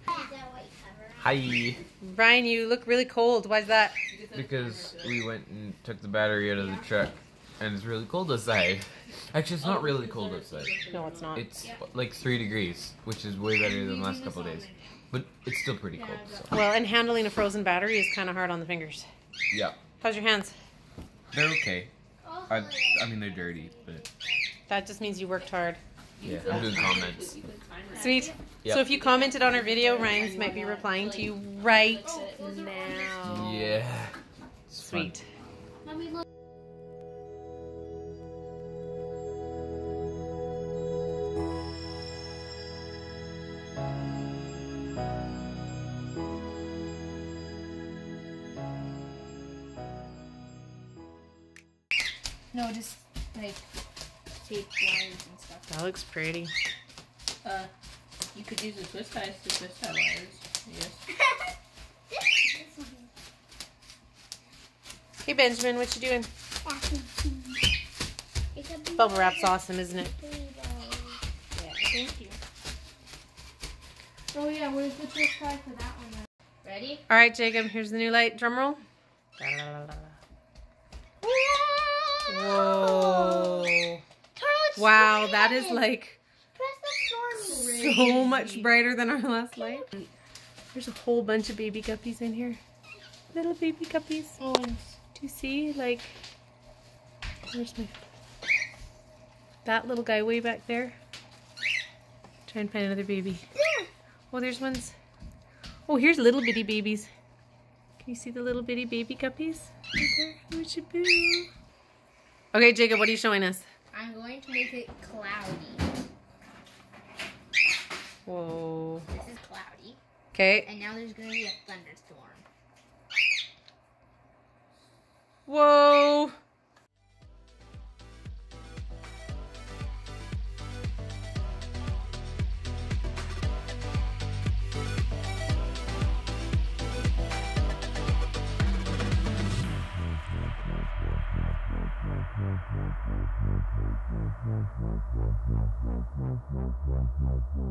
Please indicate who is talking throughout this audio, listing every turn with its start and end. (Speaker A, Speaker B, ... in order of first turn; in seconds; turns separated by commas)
Speaker A: 0.1-1.3, Speaker B: 1.2-1.8, Speaker C: 2.0-4.0, Speaker D: 4.1-5.3, Speaker B: 4.3-10.7, Speaker A: 6.6-6.9, Speaker D: 9.6-11.7, Speaker C: 10.9-11.5, Speaker B: 11.3-16.5, Speaker A: 13.6-15.0, Speaker A: 15.9-16.5, Speaker C: 16.5-19.1, Speaker B: 19.5-19.8, Speaker C: 20.0-20.5, Speaker B: 21.3-21.9, Speaker A: 22.2-24.4, Speaker B: 22.5-24.0, Speaker C: 24.7-25.8, Speaker D: 26.2-33.5, Speaker B: 26.2-27.3, Speaker A: 27.9-28.4, Speaker C: 27.9-33.7, Speaker A: 32.0-33.3, Speaker B: 33.2-34.1, Speaker B: 34.7-35.1, Speaker C: 34.8-35.2, Speaker A: 52.5-53.6, Speaker A: 54.4-55.7, Speaker C: 55.7-56.5, Speaker D: 57.4-57.7, Speaker D: 58.3-61.0, Speaker A: 62.1-63.1, Speaker C: 65.2-66.3, Speaker A: 66.6-67.6, Speaker A: 68.5-71.2, Speaker C: 69.0-70.1, Speaker A: 71.8-72.4, Speaker A: 74.3-75.8, Speaker A: 76.6-77.0, Speaker C: 77.1-78.8, Speaker C: 79.4-80.1, Speaker A: 81.2-83.7, Speaker C: 82.3-84.0, Speaker A: 84.4-86.0, Speaker C: 84.8-86.2, Speaker A: 86.5-88.7, Speaker C: 87.3-89.8, Speaker A: 89.6-89.9, Speaker C: 90.7-92.6, Speaker C: 93.3-94.4, Speaker A: 94.4-94.8, Speaker C: 95.2-96.1, Speaker C: 97.5-98.0, Speaker C: 99.7-101.0, Speaker C: 102.5-103.5, Speaker A: 103.6-103.9, Speaker C: 104.3-104.9, Speaker C: 105.9-107.1, Speaker C: 108.0-111.5, Speaker C: 112.5-113.7, Speaker A: 113.9-115.8, Speaker C: 118.3-119.1, Speaker A: 119.1-120.0, Speaker C: 120.3-120.7, Speaker A: 120.6-122.4, Speaker C: 125.5-126.3